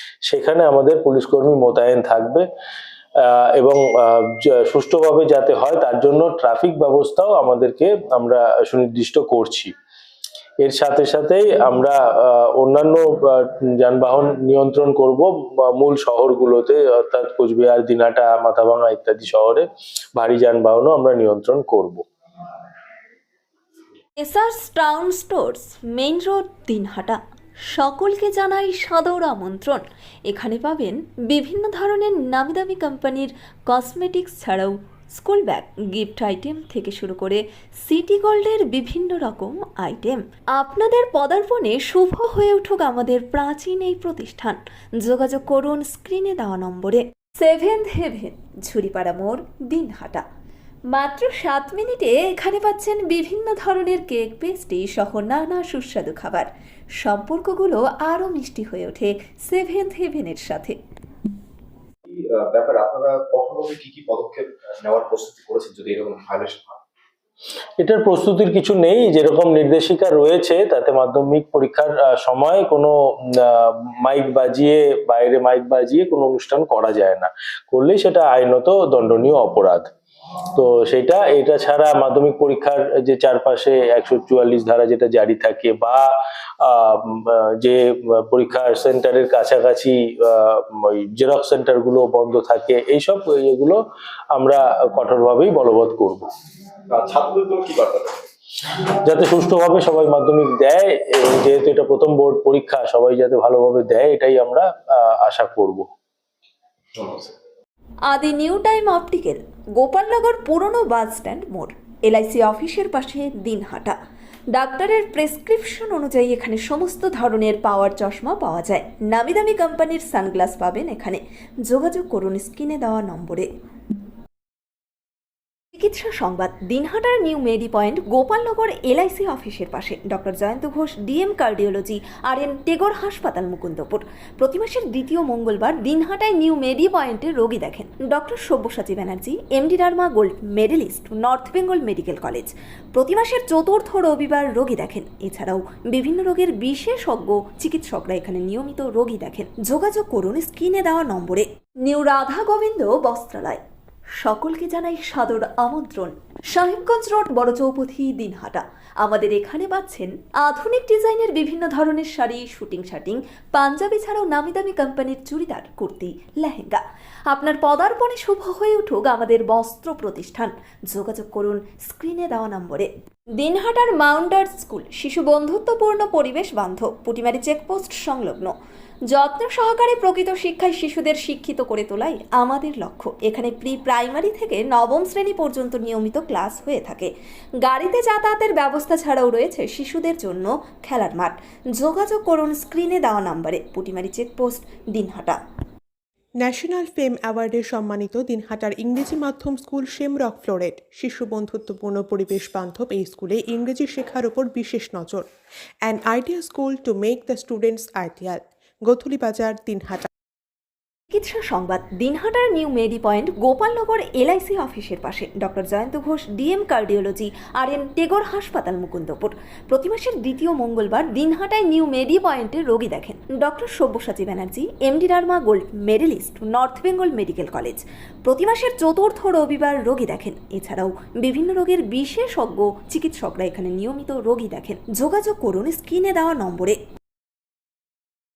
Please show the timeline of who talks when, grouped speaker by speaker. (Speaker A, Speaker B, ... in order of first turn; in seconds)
Speaker A: 0.2-2.4, 3.2-9.7, 10.6-22.0, 67.8-79.8, 80.5-86.0, 86.6-93.8, 94.3-96.2, 99.0-105.8
Speaker B: 24.2-27.2, 27.7-50.2, 50.9-56.5, 57.0-60.8, 108.1-114.0, 114.5-123.5, 125.8-153.6, 154.2-178.5, 179.1-187.1, 187.6-195.4, 211.1-236.8
Speaker C: 62.1-66.8, 96.9-98.3, 106.9-107.3
Speaker D: 196.4-205.2, 205.8-210.1